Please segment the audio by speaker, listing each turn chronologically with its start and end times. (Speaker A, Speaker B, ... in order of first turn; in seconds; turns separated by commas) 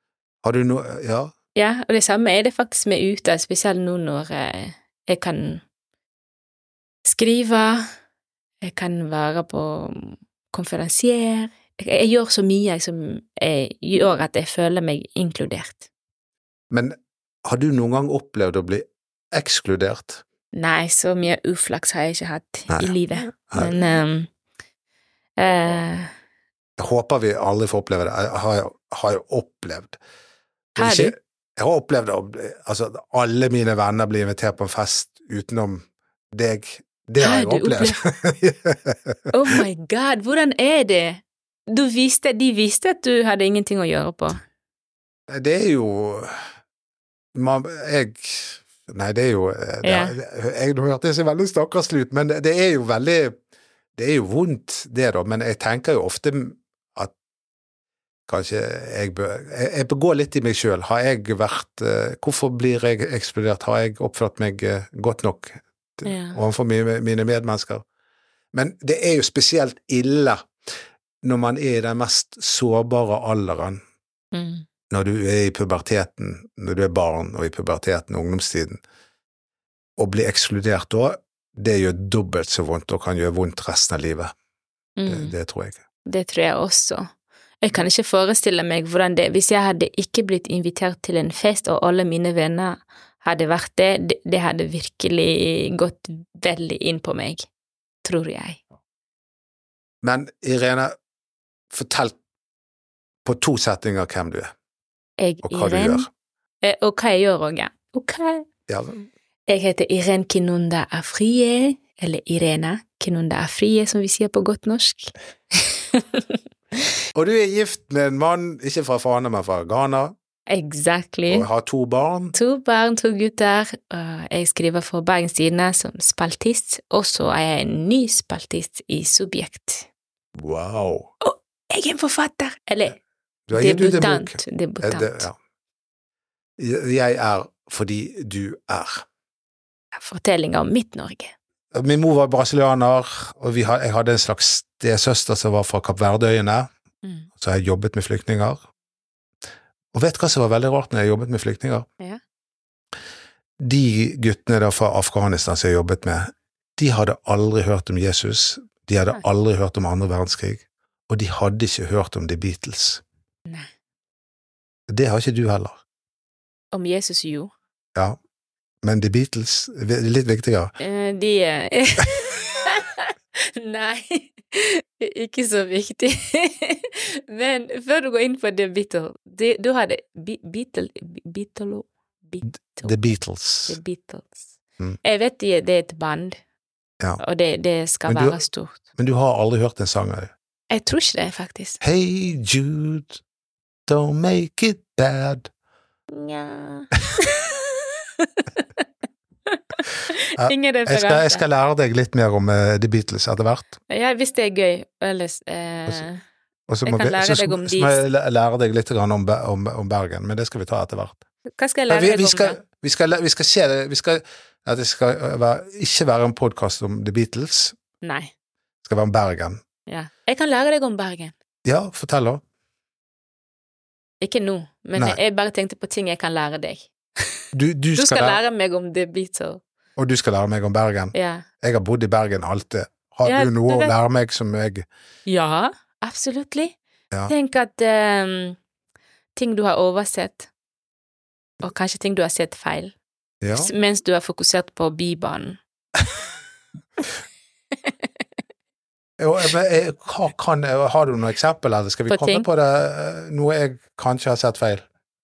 Speaker A: 0.4-1.3, Speaker B: 1.6-5.6, Speaker B: 7.0-7.8, Speaker B: 8.6-15.8, Speaker A: 16.7-20.2, Speaker B: 20.5-24.3, Speaker A: 22.7-23.8, Speaker B: 25.4-26.1, Speaker A: 26.8-30.0, Speaker A: 30.8-39.6, Speaker B: 30.8-31.1, Speaker B: 37.2-38.0, Speaker B: 39.3-44.4, Speaker A: 45.3-46.3, Speaker A: 47.3-53.4, Speaker B: 49.8-50.1, Speaker A: 54.0-57.1, Speaker A: 58.3-67.8, Speaker B: 66.0-66.4, Speaker A: 68.5-70.5, Speaker A: 71.2-73.8, Speaker B: 74.3-74.7, Speaker A: 74.9-78.8, Speaker A: 80.0-84.3, Speaker B: 85.0-85.3, Speaker A: 85.1-85.8, Speaker B: 86.0-87.0, Speaker B: 87.6-97.5, Speaker B: 98.0-98.6, Speaker A: 100.0-100.9, Speaker A: 101.7-102.2, Speaker A: 103.2-104.5, Speaker B: 105.2-106.0, Speaker A: 105.4-106.1, Speaker B: 106.6-108.4, Speaker A: 108.7-109.0, Speaker B: 109.5-116.2, Speaker A: 117.1-120.1, Speaker B: 120.5-121.5, Speaker A: 121.3-122.3, Speaker B: 122.3-129.9, Speaker A: 130.3-131.1, Speaker B: 131.2-133.0, Speaker A: 133.5-135.3, Speaker B: 133.5-135.3, Speaker A: 136.6-139.0, Speaker B: 140.0-141.3, Speaker A: 141.7-146.7, Speaker B: 147.0-147.3, Speaker A: 147.3-148.6, Speaker A: 149.9-151.9, Speaker A: 153.6-163.0, Speaker A: 164.9-165.8, Speaker B: 166.7-167.5, Speaker A: 168.8-170.7, Speaker B: 170.8-183.1, Speaker A: 182.8-183.8, Speaker B: 183.7-184.5, Speaker B: 185.0-186.4, Speaker B: 187.2-188.8, Speaker A: 188.1-188.4, Speaker A: 188.9-190.3, Speaker B: 190.7-191.8, Speaker A: 191.8-193.2, Speaker A: 193.9-195.5, Speaker B: 196.1-198.8, Speaker B: 199.5-201.4, Speaker A: 200.4-203.8, Speaker B: 203.9-206.2, Speaker A: 206.7-211.2, Speaker B: 206.8-208.1, Speaker B: 211.6-212.6, Speaker A: 211.9-217.7, Speaker B: 218.0-218.3, Speaker A: 218.8-219.6, Speaker B: 219.9-221.3, Speaker A: 221.6-222.4, Speaker B: 224.2-227.4, Speaker A: 227.5-228.4, Speaker B: 227.9-229.6, Speaker A: 230.0-234.8, Speaker B: 231.1-231.4, Speaker B: 233.2-233.9, Speaker B: 235.2-236.8, Speaker B: 237.3-238.6, Speaker B: 239.3-240.5, Speaker B: 241.6-242.9, Speaker A: 243.4-243.7, Speaker B: 243.5-245.6, Speaker A: 249.2-254.8, Speaker B: 252.1-252.4